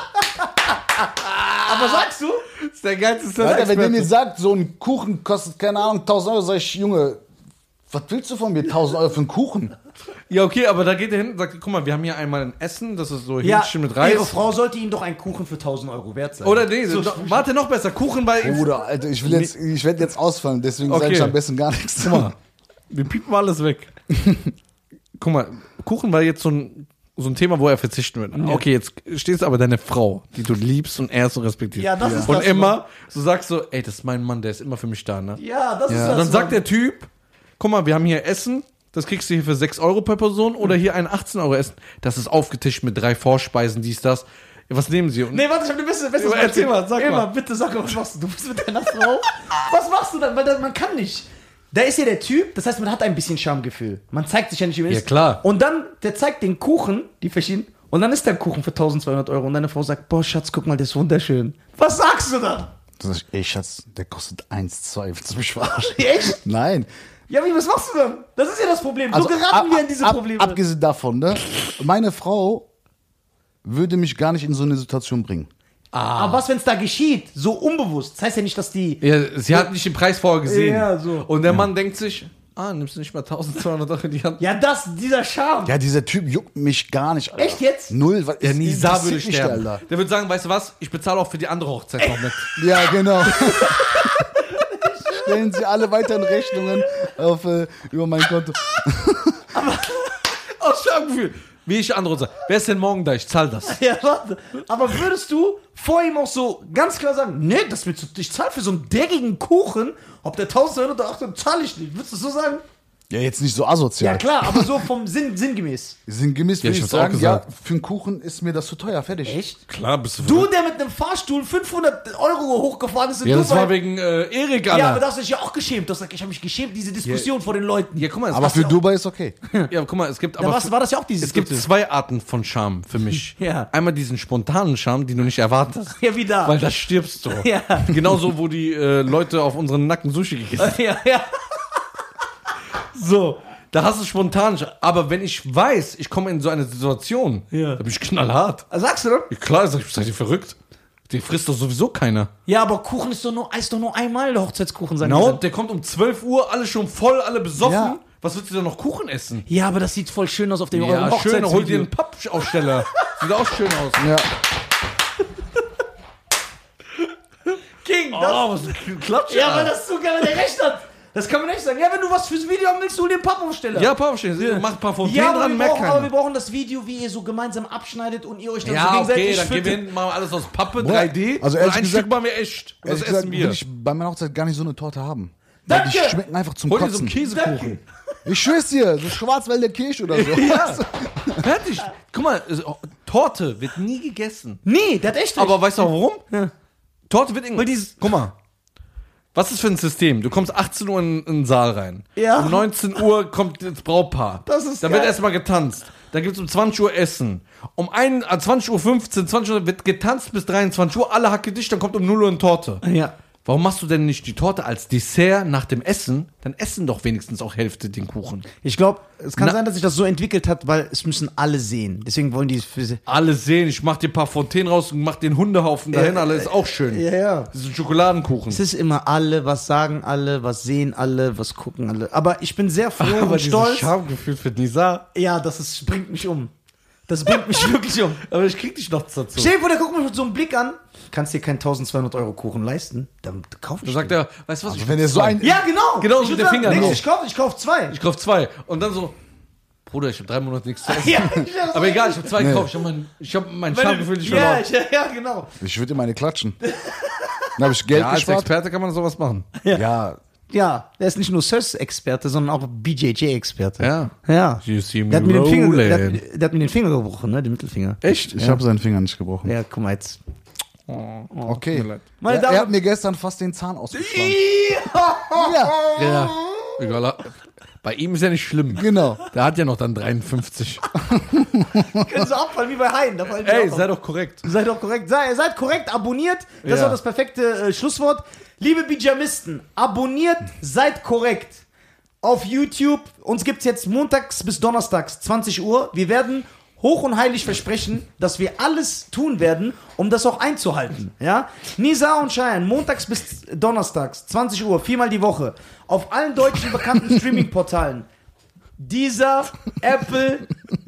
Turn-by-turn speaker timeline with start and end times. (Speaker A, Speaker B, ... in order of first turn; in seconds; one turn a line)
Speaker A: 1.2-2.0
Speaker B: 1.6-2.5
Speaker A: 2.6-4.1
Speaker C: 3.4-7.2
Speaker C: 7.9-9.7
Speaker A: 10.3-14.3
Speaker B: 13.4-17.5
Speaker A: 16.4-19.5
Speaker C: 18.4-22.3
Speaker A: 20.9-21.4
Speaker A: 22.0-22.3
Speaker A: 22.9-23.9
Speaker C: 24.2-24.5
Speaker A: 25.2-35.4
Speaker B: 28.3-28.6
Speaker B: 31.8-32.8
Speaker C: 32.0-32.3
Speaker B: 35.4-36.6
Speaker C: 35.9-36.2
Speaker A: 35.9-45.4
Speaker B: 45.3-62.7
Speaker A: 46.2-47.3
Speaker A: 54.9-55.4
Speaker C: 63.0-66.9
Speaker B: 65.6-66.4
Speaker B: 67.3-70.6
Speaker C: 69.1-72.7
Speaker C: 73.6-75.5
Speaker A: 75.9-76.4
Speaker B: 76.2-79.7
Speaker A: 79.0-84.4
Speaker B: 80.4-81.3
Speaker B: 84.4-85.7
Speaker C: 85.7-89.8
Speaker B: 87.3-87.9
Speaker A: 88.4-92.5
Speaker B: 92.0-95.5
Speaker C: 92.6-94.2
Speaker C: 95.1-99.5
Speaker B: 96.3-96.9
Speaker B: 99.5-100.1
Speaker A: 100.5-103.8
Speaker B: 103.6-112.6
Speaker C: 113.1-114.8
Speaker B: 114.0-116.0
Speaker C: 116.1-119.4
Speaker A: 116.6-117.4
Speaker B: 119.2-119.6
Speaker A: 119.7-120.5
Speaker B: 120.2-123.7
Speaker A: 123.2-125.0
Speaker B: 124.7-128.4
Speaker A: 127.0-127.3
Speaker A: 128.0-128.8
Speaker C: 128.3-129.3
Speaker A: 129.7-140.8
Speaker B: 130.4-131.7
Speaker B: 133.4-133.7
Speaker B: 136.0-136.6
Speaker B: 137.3-138.1
Speaker B: 140.6-141.8
Speaker B: 142.9-143.4
Speaker A: 143.7-148.6
Speaker B: 147.5-147.8
Speaker B: 148.7-149.3
Speaker A: 149.3-150.6
Speaker A: 151.1-152.3
Speaker B: 152.5-155.4
Speaker A: 155.0-159.4
Speaker C: 157.6-158.0
Speaker B: 159.5-161.9
Speaker A: 160.7-164.1
Speaker C: 164.0-164.3
Speaker B: 167.8-168.5
Speaker A: 168.1-169.7
Speaker B: 169.3-179.9
Speaker A: 173.7-176.1
Speaker A: 178.6-183.6
Speaker C: 180.8-182.1
Speaker C: 182.8-187.2
Speaker B: 185.7-186.2
Speaker A: 186.7-187.8
Speaker B: 187.2-187.8
Speaker C: 188.2-191.4
Speaker A: 190.1-190.8
Speaker B: 190.2-190.8
Speaker A: 191.4-194.6
Speaker B: 194.6-196.5
Speaker A: 195.3-196.2
Speaker A: 197.1-198.3
Speaker B: 197.6-198.0
Speaker A: 199.3-212.8
Speaker B: 202.2-203.0
Speaker B: 204.4-205.1
Speaker B: 212.8-213.1
Speaker A: 213.4-218.5
Speaker B: 218.6-223.0
Speaker A: 223.1-228.6
Speaker B: 225.9-227.5
Speaker B: 228.5-233.9
Speaker A: 233.0-235.0
Speaker B: 235.1-236.5
Speaker B: 237.1-238.2
Speaker A: 237.3-237.6
Speaker A: 238.2-239.5
Speaker B: 239.3-244.1
Speaker A: 243.8-247.0
Speaker C: 244.7-245.6
Speaker B: 245.4-247.9
Speaker C: 246.6-247.0
Speaker A: 247.9-249.2
Speaker A: 249.8-254.6
Speaker B: 250.8-252.4
Speaker C: 252.3-252.7
Speaker B: 253.7-255.5
Speaker C: 255.6-256.6
Speaker B: 256.6-257.5
Speaker C: 257.6-258.5
Speaker A: 257.9-259.5
Speaker C: 259.7-260.2
Speaker B: 260.5-268.6
Speaker A: 263.8-266.2
Speaker A: 268.0-268.4
Speaker C: 268.3-269.5
Speaker B: 269.4-270.2
Speaker A: 270.9-272.0
Speaker C: 271.5-274.4
Speaker B: 272.2-272.7
Speaker B: 273.9-276.7
Speaker C: 275.3-275.8
Speaker A: 275.9-280.9
Speaker C: 278.8-279.2
Speaker C: 281.1-282.1
Speaker B: 281.7-283.9
Speaker A: 283.4-284.4
Speaker B: 284.4-291.6
Speaker A: 286.6-287.0
Speaker B: 292.2-308.1
Speaker B: 308.8-310.5